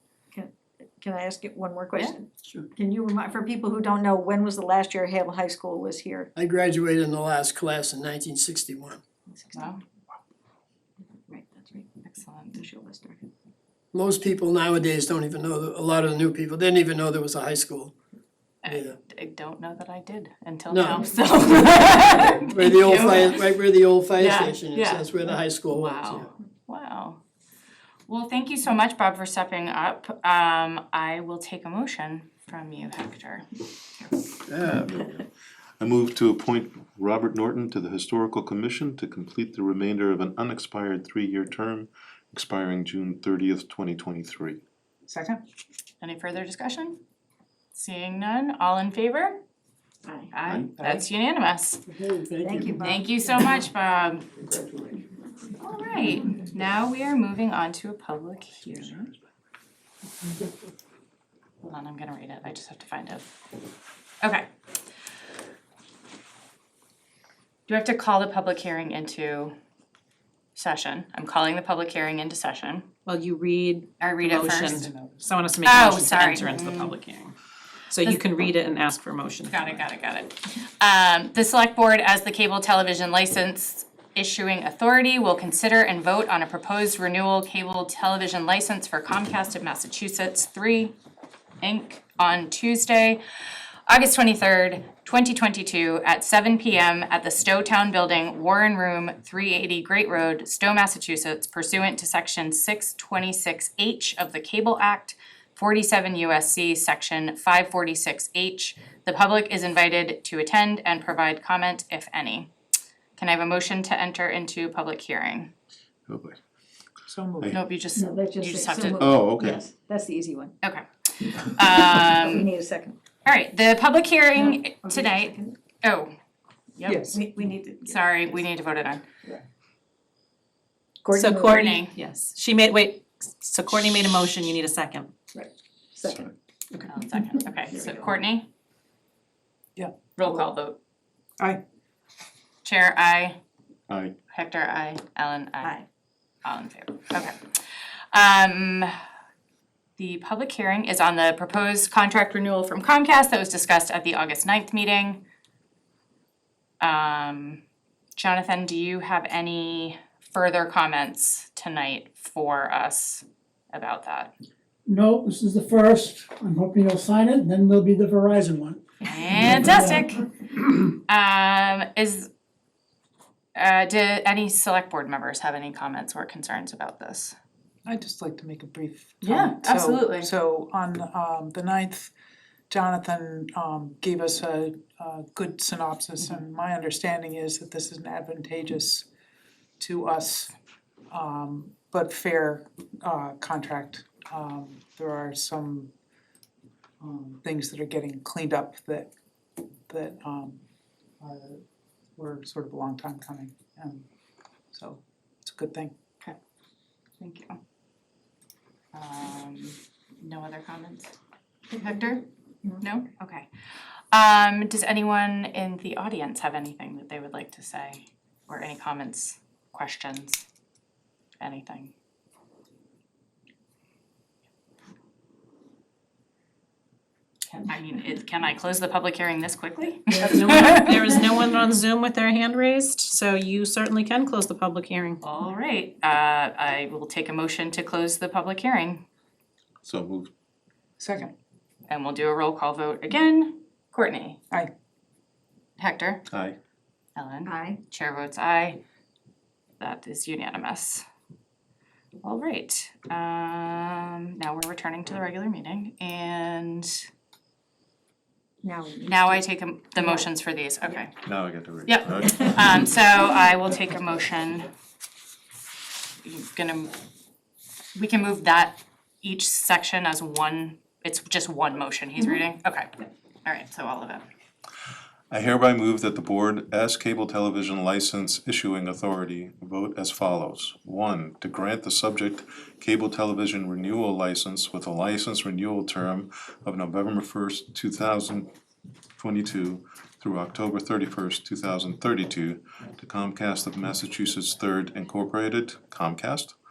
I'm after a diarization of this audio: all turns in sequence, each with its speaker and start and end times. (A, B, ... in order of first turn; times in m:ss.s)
0:00.3-0:06.3 A
0:06.4-0:09.0 B
0:09.3-0:09.7 A
0:09.5-0:09.8 C
0:11.3-0:11.9 A
0:12.0-0:12.6 C
0:12.5-0:13.2 A
0:13.9-0:17.9 B
0:18.6-0:23.5 C
0:18.7-0:19.0 B
0:20.7-0:21.2 B
0:22.2-0:26.3 B
0:24.2-0:27.2 C
0:28.1-0:33.4 C
0:34.5-0:34.7 B
0:34.6-0:35.3 D
0:35.8-0:44.6 D
0:45.1-0:45.4 E
0:46.0-0:47.0 C
0:47.7-0:49.4 C
0:50.3-0:51.8 C
0:50.4-0:50.7 D
0:50.8-0:51.0 E
0:51.9-0:52.8 B
0:52.4-0:53.0 A
0:52.8-0:54.3 C
0:55.6-0:59.0 C
1:01.6-1:03.3 C
1:04.2-1:04.5 C
1:07.7-1:09.5 C
1:10.6-1:12.9 C
1:13.0-1:17.3 F
1:14.0-1:14.8 C
1:14.8-1:15.3 E
1:15.6-1:16.9 C
1:17.9-1:19.8 F
1:19.5-1:30.9 C
1:31.6-1:33.2 C
1:33.9-1:52.5 C
1:53.2-1:55.5 C
1:56.1-1:56.4 D
1:57.1-1:57.5 E
1:57.5-1:59.1 C
1:57.9-2:00.5 A
1:58.9-1:59.6 D
2:00.6-2:02.5 C
2:01.9-2:03.0 A
2:03.2-2:06.1 C
2:04.5-2:05.5 A
2:06.8-2:07.1 C
2:06.8-2:07.2 E
2:07.1-2:08.4 A
2:07.8-2:09.0 C
2:11.0-2:11.8 A
2:11.2-2:15.1 F
2:11.3-2:11.9 C
2:15.3-2:16.8 A
2:16.9-2:18.5 C
2:17.7-2:18.0 A
2:20.2-2:20.8 C
2:22.6-2:23.4 C
2:23.9-2:24.1 D
2:24.3-2:25.8 C
2:26.4-2:27.6 C
2:28.1-2:28.9 C
2:30.0-2:35.2 C
2:36.8-2:37.6 C
2:38.2-2:44.3 C
2:44.8-2:50.1 G
2:49.0-2:50.2 C
2:51.1-2:52.3 C
2:53.5-2:57.3 C
2:57.8-3:02.1 E
2:59.2-3:00.3 C
3:02.7-3:09.1 E
3:09.8-3:10.5 E
3:11.1-3:15.9 E
3:17.0-3:19.1 E
3:19.9-3:20.6 E
3:21.2-3:21.6 E
3:22.2-3:24.0 E
3:24.7-3:25.9 E
3:27.2-3:27.6 C
3:28.9-3:31.1 C
3:31.7-3:32.2 C
3:32.8-3:33.5 C
3:34.1-3:40.4 C
3:41.4-3:41.9 C
3:47.5-3:51.0 C
3:50.1-3:55.2 F
3:55.2-3:59.0 C
3:59.8-4:00.3 D
4:01.0-4:01.3 E
4:01.9-4:04.4 C
4:05.8-4:06.2 C
4:06.3-4:06.6 D
4:07.2-4:08.8 C
4:07.4-4:07.8 A
4:09.8-4:11.0 C
4:12.2-4:17.0 C
4:18.6-4:20.3 A
4:19.0-4:21.1 C
4:21.2-4:22.9 D
4:21.8-4:24.7 C
4:26.2-4:26.9 C
4:28.0-4:34.2 C
4:35.3-4:48.5 D
4:49.2-4:56.6 D